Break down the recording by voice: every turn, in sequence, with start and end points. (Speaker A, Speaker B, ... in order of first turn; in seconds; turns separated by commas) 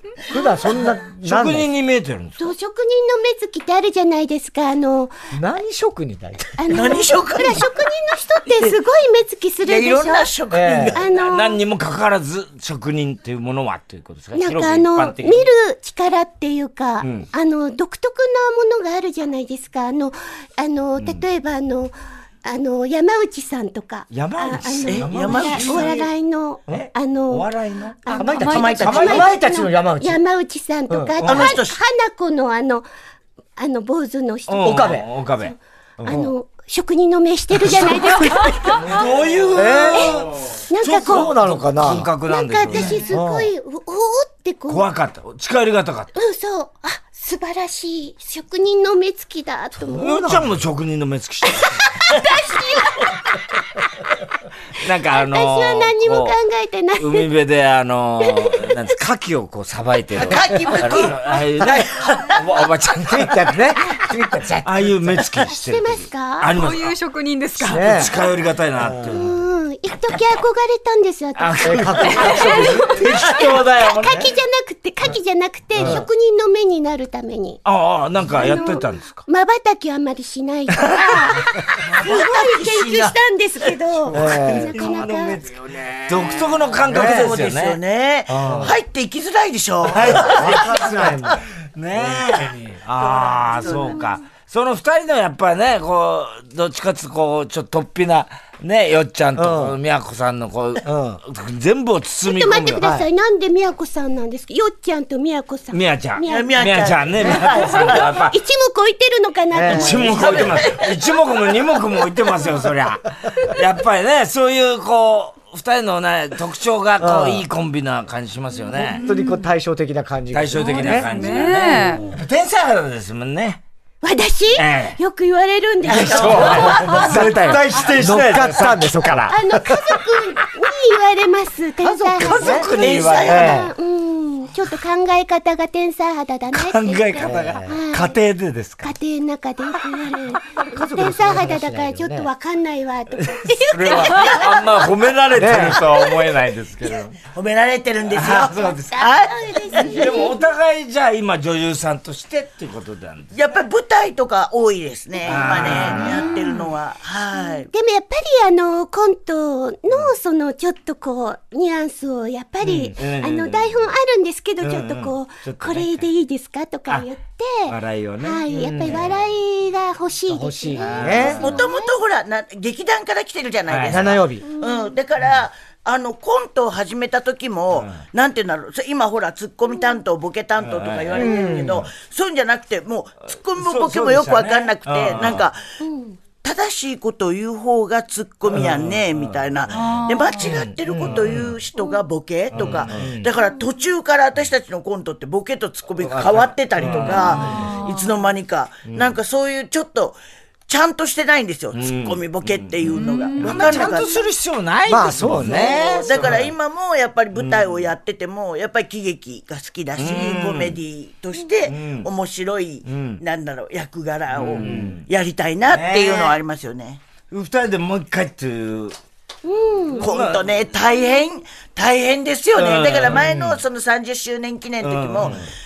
Speaker A: 0.3-1.7, Speaker B: 1.2-2.5, Speaker C: 2.4-5.1, Speaker A: 5.3-6.7, Speaker C: 6.6-11.6, Speaker D: 6.7-7.7, Speaker D: 9.6-11.2, Speaker A: 10.5-11.0, Speaker B: 11.2-15.5, Speaker C: 14.3-27.5, Speaker B: 17.0-17.3, Speaker B: 21.0-21.2, Speaker B: 24.1-26.0, Speaker D: 24.9-26.0, Speaker A: 25.1-25.9, Speaker B: 26.7-28.1, Speaker C: 28.0-32.9, Speaker A: 28.1-30.2, Speaker E: 28.2-28.7, Speaker D: 28.5-29.2, Speaker B: 28.7-29.2, Speaker A: 30.9-31.2, Speaker B: 31.2-31.5, Speaker D: 31.2-31.8, Speaker C: 33.6-35.0, Speaker B: 34.5-36.2, Speaker A: 34.6-35.1, Speaker C: 36.0-38.9, Speaker B: 37.6-43.1, Speaker A: 39.5-40.2, Speaker C: 39.9-41.4, Speaker A: 41.0-42.1, Speaker C: 41.9-44.9, Speaker A: 42.9-43.5, Speaker B: 44.7-46.1, Speaker C: 46.1-50.3, Speaker B: 49.9-51.9, Speaker A: 50.0-50.5, Speaker C: 51.6-53.1, Speaker B: 54.8-56.4, Speaker C: 55.1-57.3, Speaker B: 56.9-63.6, Speaker C: 58.2-58.9, Speaker D: 60.1-62.4, Speaker A: 61.6-61.9, Speaker A: 63.1-65.2, Speaker B: 64.6-66.9, Speaker C: 65.5-66.5, Speaker E: 66.5-68.3, Speaker A: 67.6-68.1, Speaker B: 67.7-69.3, Speaker A: 68.8-69.2, Speaker C: 69.0-77.6, Speaker B: 71.3-74.3, Speaker A: 71.6-73.2, Speaker B: 75.8-76.0, Speaker A: 75.8-76.0, Speaker B: 77.6-79.2, Speaker C: 78.3-85.4, Speaker B: 80.9-81.3, Speaker D: 81.9-83.2, Speaker B: 84.1-87.8, Speaker A: 84.1-84.8, Speaker A: 86.8-87.3, Speaker D: 86.9-90.8, Speaker A: 88.3-88.8, Speaker B: 88.5-88.7, Speaker B: 89.9-102.9, Speaker A: 89.9-91.4, Speaker D: 93.0-94.0, Speaker A: 99.3-99.8, Speaker A: 100.8-101.2, Speaker C: 102.2-110.6, Speaker A: 102.8-103.1, Speaker B: 105.7-108.4, Speaker D: 106.3-108.2, Speaker A: 109.5-110.3, Speaker B: 109.7-119.0, Speaker D: 110.1-111.0, Speaker A: 117.0-117.4, Speaker E: 118.8-119.5, Speaker A: 118.8-121.1, Speaker B: 120.3-123.6, Speaker E: 120.7-122.0, Speaker C: 124.0-127.1, Speaker B: 124.5-125.0, Speaker D: 125.8-126.9, Speaker B: 125.9-129.3, Speaker A: 126.2-129.7, Speaker C: 129.3-138.2, Speaker A: 131.8-132.7, Speaker B: 132.2-133.5, Speaker D: 132.6-133.6, Speaker A: 133.2-133.7, Speaker B: 136.5-138.9, Speaker A: 137.2-137.8, Speaker C: 138.8-144.9, Speaker A: 140.7-142.3, Speaker B: 143.2-147.2, Speaker A: 145.3-145.9, Speaker C: 145.9-146.3, Speaker D: 147.3-150.2, Speaker B: 148.1-149.1, Speaker C: 148.6-150.4, Speaker B: 149.8-153.3, Speaker D: 153.3-157.7, Speaker B: 155.2-156.2, Speaker C: 155.2-156.5, Speaker E: 156.0-156.5, Speaker C: 157.3-171.9, Speaker B: 162.7-163.9, Speaker B: 164.6-166.1, Speaker B: 167.7-169.2, Speaker A: 168.5-169.0, Speaker A: 170.3-171.5, Speaker B: 170.8-171.5, Speaker D: 171.4-185.6, Speaker B: 173.7-174.1, Speaker A: 173.9-174.4, Speaker C: 174.4-174.9, Speaker B: 177.7-178.0, Speaker B: 180.6-181.2, Speaker A: 181.1-181.8, Speaker B: 183.6-185.5, Speaker C: 185.8-186.2, Speaker D: 186.4-200.2, Speaker B: 188.5-189.9, Speaker E: 189.7-190.6, Speaker A: 190.5-191.4, Speaker B: 190.9-191.5, Speaker B: 192.5-193.2, Speaker A: 192.5-193.3, Speaker B: 196.0-197.7, Speaker A: 196.8-197.6, Speaker E: 197.3-198.1, Speaker D: 200.7-204.3, Speaker B: 201.7-206.5, Speaker E: 202.9-203.9, Speaker A: 204.9-206.1, Speaker D: 205.9-217.0, Speaker B: 207.3-207.9, Speaker B: 209.9-210.8, Speaker B: 211.6-212.1, Speaker B: 212.8-213.2, Speaker B: 214.3-215.1, Speaker A: 214.6-214.9, Speaker B: 215.7-216.4, Speaker B: 217.3-218.9, Speaker C: 219.4-220.1, Speaker B: 220.0-220.5, Speaker D: 220.0-225.4, Speaker B: 222.6-223.6, Speaker B: 224.8-225.5